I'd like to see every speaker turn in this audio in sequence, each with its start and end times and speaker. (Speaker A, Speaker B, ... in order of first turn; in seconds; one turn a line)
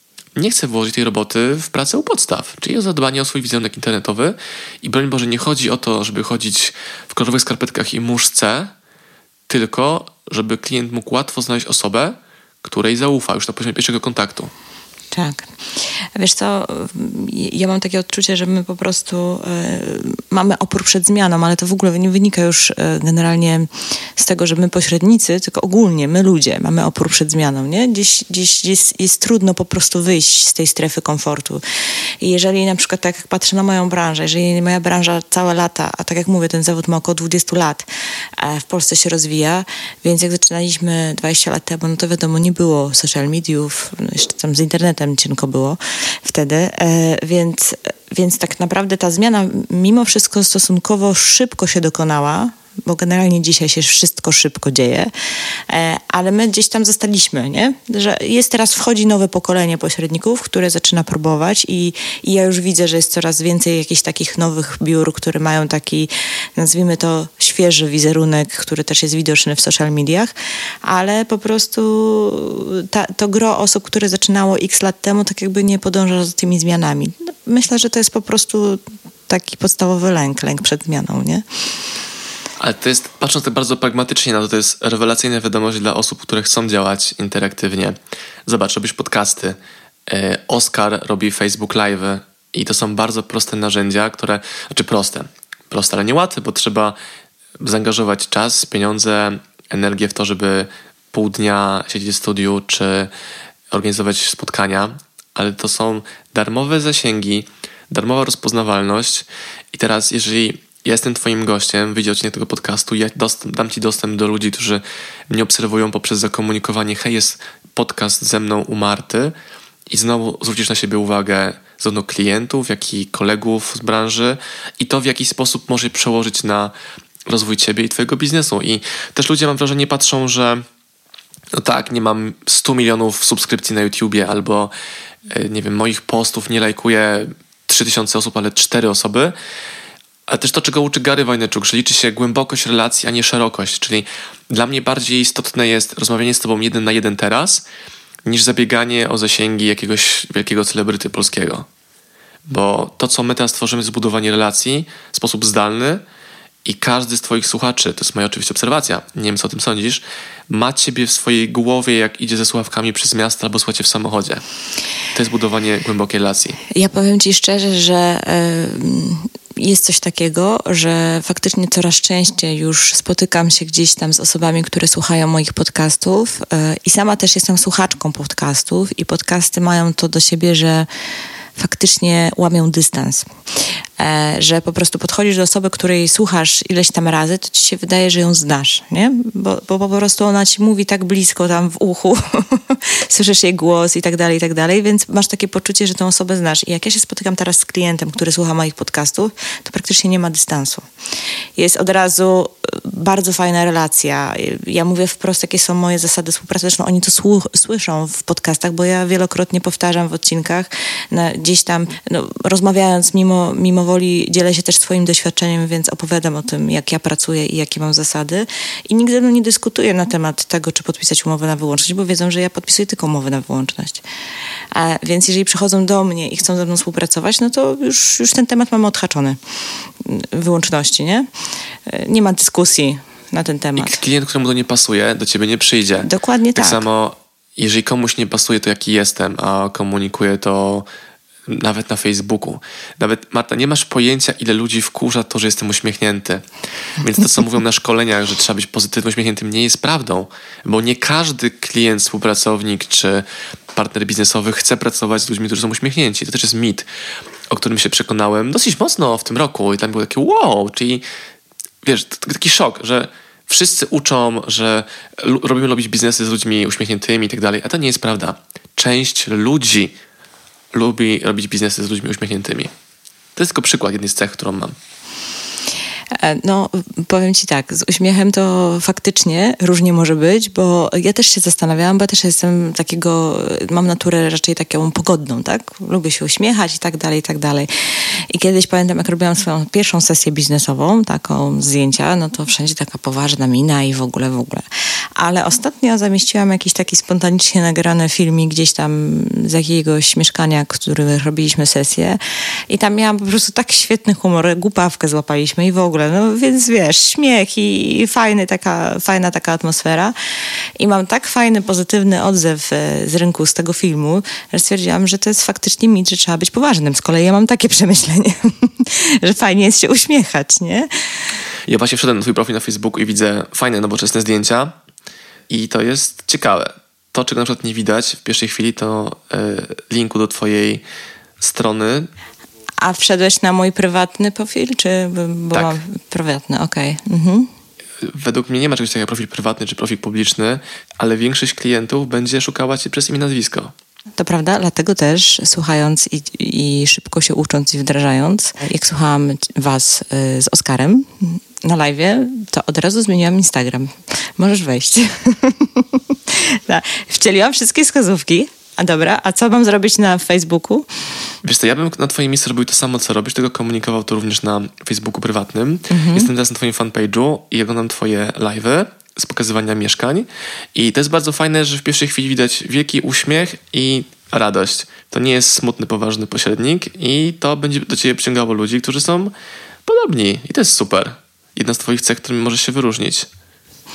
Speaker A: 0.3-8.7
Speaker A: 9.5-14.5
Speaker B: 15.1-15.5
Speaker B: 16.1-31.6
Speaker B: 32.2-37.9
Speaker B: 38.4-55.1
Speaker B: 55.7-70.3
Speaker B: 70.8-81.4
Speaker A: 82.6-97.0
Speaker A: 97.6-103.1
Speaker A: 103.7-119.3
Speaker A: 119.9-126.7
Speaker A: 127.3-130.6
Speaker A: 131.5-134.7
Speaker A: 135.3-139.3
Speaker A: 140.3-147.6
Speaker A: 148.2-151.7
Speaker A: 152.5-156.0
Speaker A: 156.6-164.4
Speaker A: 165.1-166.6
Speaker B: 166.7-180.9
Speaker B: 181.6-183.3
Speaker B: 184.0-200.8
Speaker B: 201.6-224.0
Speaker B: 224.7-229.4
Speaker B: 230.0-231.3
Speaker B: 231.9-234.0
Speaker A: 233.8-240.9
Speaker B: 236.0-236.8
Speaker A: 241.5-246.4
Speaker A: 247.0-256.9
Speaker A: 257.5-261.0
Speaker A: 261.8-269.9
Speaker A: 270.7-272.7
Speaker A: 273.4-274.7
Speaker B: 276.1-287.7
Speaker B: 288.3-294.6
Speaker B: 295.1-310.1
Speaker B: 310.8-320.9
Speaker A: 321.7-324.7
Speaker A: 325.5-330.8
Speaker A: 331.4-332.1
Speaker B: 332.8-337.5
Speaker A: 338.0-343.7
Speaker B: 344.2-360.9
Speaker A: 361.4-379.3
Speaker B: 365.9-366.3
Speaker A: 379.8-383.3